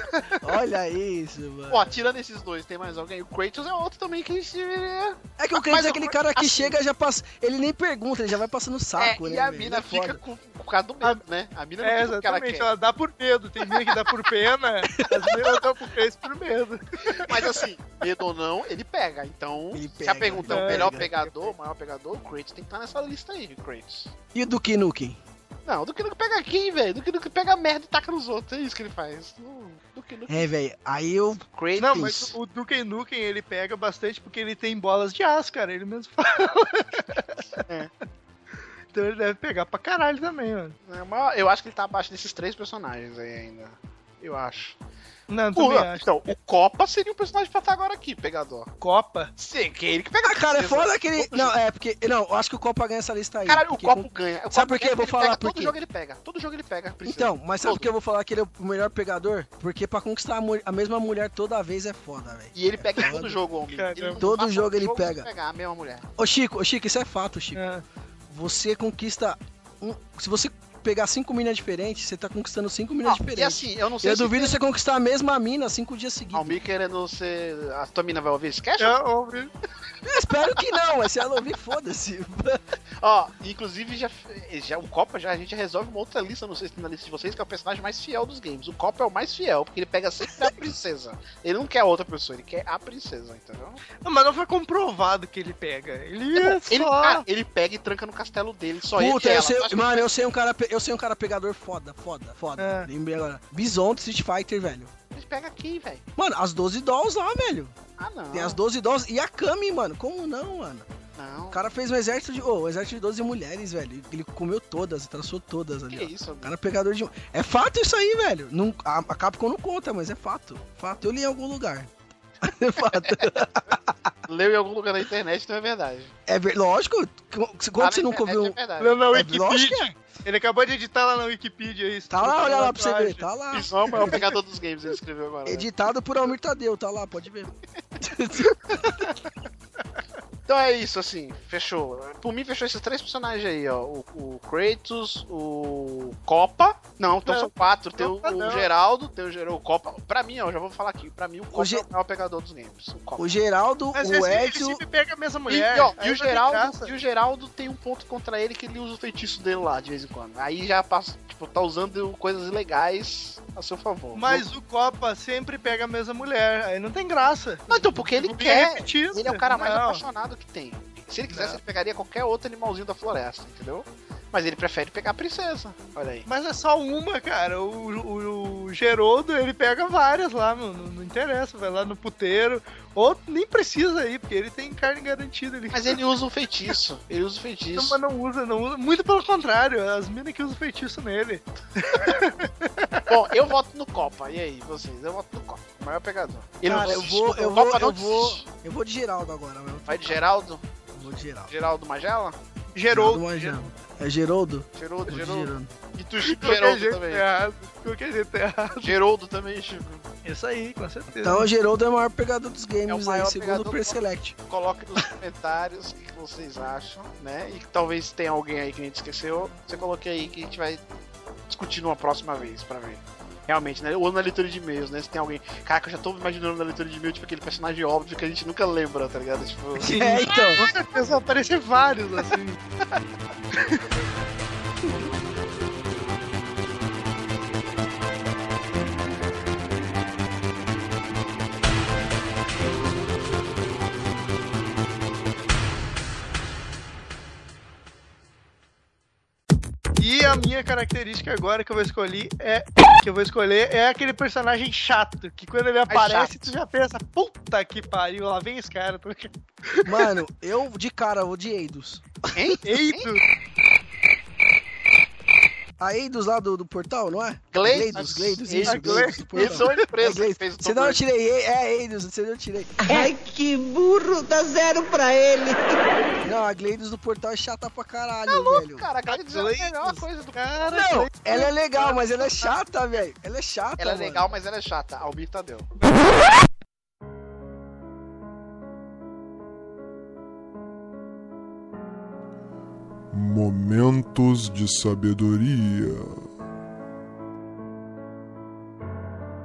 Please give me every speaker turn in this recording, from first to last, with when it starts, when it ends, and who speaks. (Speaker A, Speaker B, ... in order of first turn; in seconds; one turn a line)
Speaker A: 0.4-2.0
Speaker B: 1.7-6.8
Speaker A: 5.4-10.2
Speaker B: 9.0-12.7
Speaker C: 11.8-17.6
Speaker A: 15.0-15.3
Speaker B: 17.1-24.1
Speaker A: 19.7-21.1
Speaker C: 20.5-21.5
Speaker A: 24.3-25.2
Speaker B: 25.6-30.5
Speaker A: 30.3-32.2
Speaker B: 31.6-32.3
Speaker C: 31.8-37.6
Speaker B: 37.7-37.9
Speaker C: 38.9-40.8
Speaker B: 40.9-44.8
Speaker C: 45.3-46.2
Speaker B: 45.6-48.7
Speaker C: 48.8-49.3
Speaker B: 49.4-51.6
Speaker A: 50.2-55.8
Speaker B: 53.5-57.9
Speaker A: 57.1-63.4
Speaker B: 62.5-66.1
Speaker C: 63.7-64.2
Speaker A: 64.2-65.3
Speaker A: 66.2-67.6
Speaker C: 67.5-67.8
Speaker A: 68.3-76.6
Speaker B: 73.0-74.5
Speaker B: 76.3-79.0
Speaker C: 78.8-79.5
Speaker A: 80.0-82.6
Speaker B: 83.0-93.8
Speaker C: 94.0-97.2
Speaker B: 96.4-100.1
Speaker A: 99.0-104.9
Speaker C: 102.6-102.9
Speaker B: 105.1-106.0
Speaker A: 106.2-107.7
Speaker B: 108.0-108.6
Speaker A: 108.3-110.9
Speaker B: 111.2-111.6
Speaker A: 111.5-121.9
Speaker B: 115.9-116.5
Speaker A: 122.4-124.1
Speaker B: 124.3-126.1
Speaker A: 126.3-128.6
Speaker B: 127.8-129.0
Speaker C: 128.8-133.2
Speaker A: 129.1-129.9
Speaker A: 132.1-134.2
Speaker B: 133.5-135.7
Speaker A: 135.5-139.1
Speaker B: 140.5-153.3
Speaker C: 147.3-148.7
Speaker A: 151.5-151.9
Speaker A: 153.2-154.8
Speaker C: 153.9-156.9
Speaker B: 155.5-164.4
Speaker C: 164.2-170.0
Speaker B: 167.7-176.3
Speaker C: 171.3-171.6
Speaker C: 176.3-186.0
Speaker B: 185.7-188.0
Speaker C: 187.8-193.1
Speaker B: 193.1-198.4
Speaker A: 196.7-200.2
Speaker B: 199.9-200.7
Speaker A: 201.0-201.5
Speaker B: 201.5-202.4
Speaker C: 202.8-203.7
Speaker A: 202.9-205.7
Speaker B: 204.8-207.2
Speaker C: 206.2-208.9
Speaker B: 208.8-210.1
Speaker C: 210.2-211.5
Speaker A: 211.2-214.4
Speaker B: 212.9-220.8
Speaker B: 221.5-230.1
Speaker A: 229.8-230.6
Speaker C: 229.8-232.6
Speaker C: 250.0-259.8
Speaker B: 255.9-256.5
Speaker A: 259.8-262.6
Speaker B: 262.4-263.1
Speaker C: 262.7-263.2
Speaker A: 265.8-272.8
Speaker B: 267.5-271.0
Speaker C: 268.6-269.9
Speaker D: 272.9-275.6
Speaker A: 276.2-278.9
Speaker B: 278.3-280.6
Speaker C: 279.1-282.5
Speaker A: 280.7-284.3
Speaker B: 283.8-285.7
Speaker E: 293.1-296.3